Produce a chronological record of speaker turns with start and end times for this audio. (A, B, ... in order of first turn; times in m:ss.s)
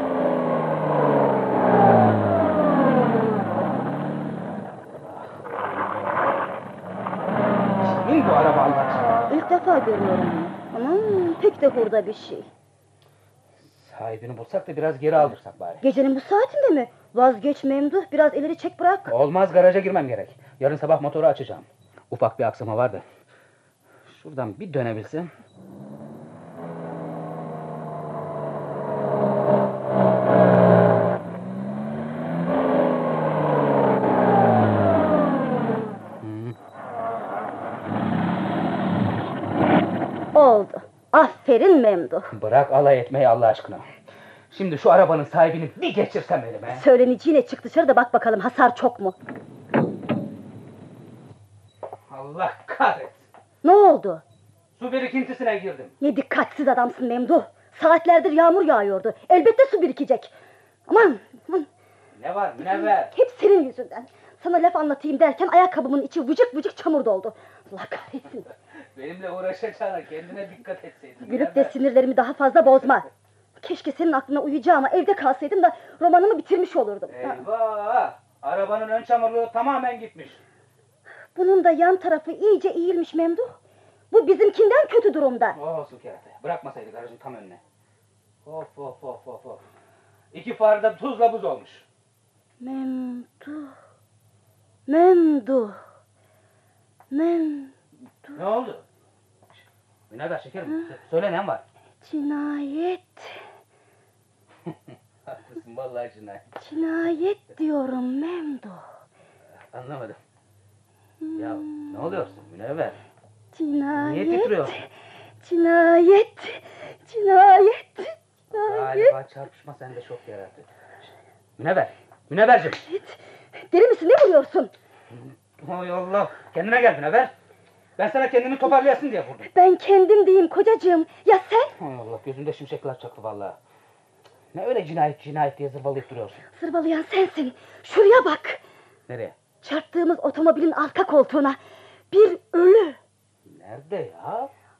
0:05.0-0:06.3 A
0:07.8-0:09.2 A
0:09.3-0:12.5 B
0:13.6-0:15.8 A
0:15.8-0:19.1 B
0:19.1-0:23.0 A
0:24.1-0:25.3 A
0:36.2-0:36.6 A
0:40.3-0:42.3 B
0:42.3-0:43.9 A
0:44.5-0:46.8 A
0:46.7-0:49.2 B
0:52.1-0:53.3 A
0:53.6-0:54.2 B
0:54.8-0:55.9 A
0:56.0-1:00.3 B
1:00.9-1:01.7 B
1:02.1-1:03.1 A
1:02.6-1:08.5 B
1:08.9-1:11.8 A
1:11.2-1:13.1 B
1:13.6-1:17.4 B
1:17.1-1:20.4 A
1:21.3-1:23.5 B
1:24.1-1:25.6 B
1:25.5-1:27.6 A
1:28.4-1:29.6 A
1:30.3-1:31.8 A
1:32.6-1:33.7 B
1:34.9-1:35.8 B
1:37.1-1:37.7 B
1:38.3-1:38.8 A
1:40.1-1:41.6 A
1:42.0-1:43.4 B
1:44.6-1:46.5 A
1:46.6-1:48.8 B
1:49.7-1:50.2 A
1:51.2-1:52.2 B
1:51.3-1:53.0 A
1:53.5-1:54.9 B
1:53.9-1:54.8 A
1:55.4-1:59.2 B
1:58.5-2:00.7 A
2:01.6-2:02.8 A
2:02.8-2:04.7 B
2:05.1-2:07.3 A
2:08.0-2:09.5 A
2:09.5-2:11.7 B
2:11.8-2:13.6 A
2:14.5-2:16.4 A
2:16.5-2:18.6 B
2:19.1-2:19.4 A
2:19.6-2:21.6 B
2:22.1-2:23.0 B
2:23.4-2:24.5 A